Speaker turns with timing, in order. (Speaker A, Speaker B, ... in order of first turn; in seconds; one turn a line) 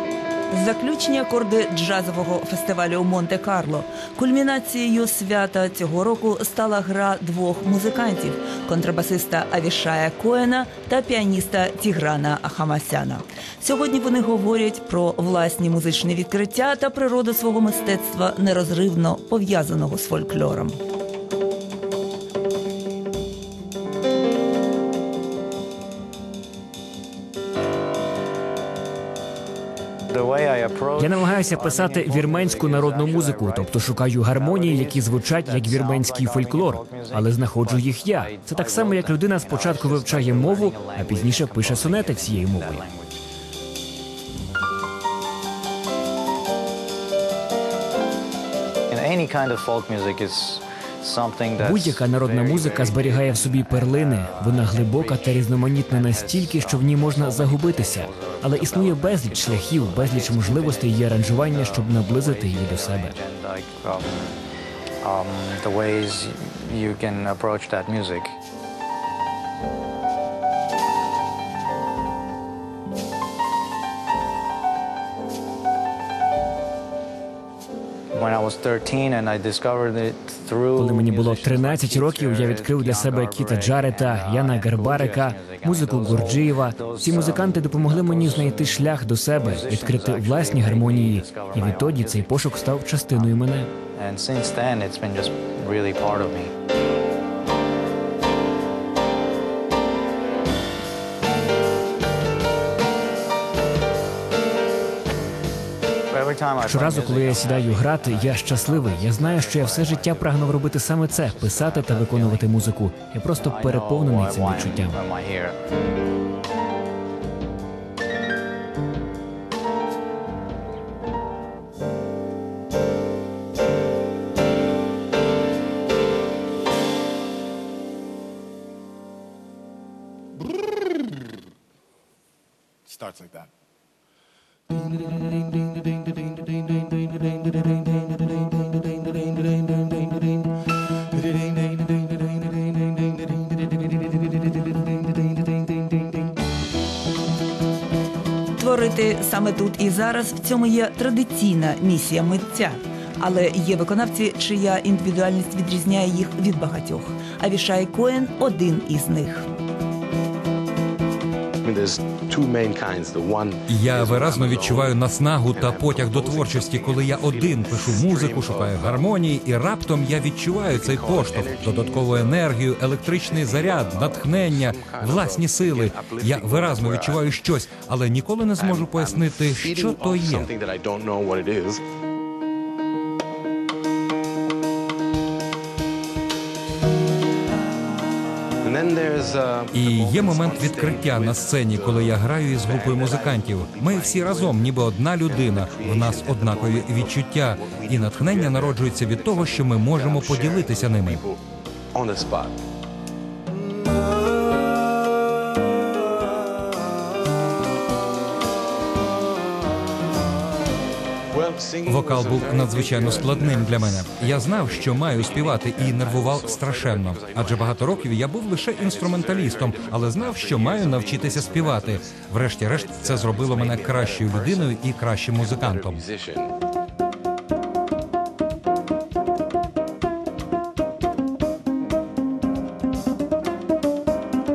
Speaker A: 0.5-20.8
Speaker B: 30.1-43.2
Speaker C: 31.0-42.8
Speaker B: 48.9-64.1
Speaker C: 51.6-63.1
Speaker B: 65.0-68.3
Speaker B: 78.1-96.5
Speaker C: 80.8-93.7
Speaker B: 106.1-112.7
Speaker C: 106.6-115.0
Speaker B: 113.4-115.5
Speaker D: 133.0-133.3
Speaker A: 148.6-159.4
Speaker D: 161.6-169.1
Speaker E: 163.7-180.5
Speaker D: 170.7-177.4
Speaker D: 178.6-181.8
Speaker D: 188.6-201.4
Speaker E: 189.7-201.2
Speaker D: 201.9-202.6
Speaker D: 211.3-226.5
Speaker E: 211.8-226.1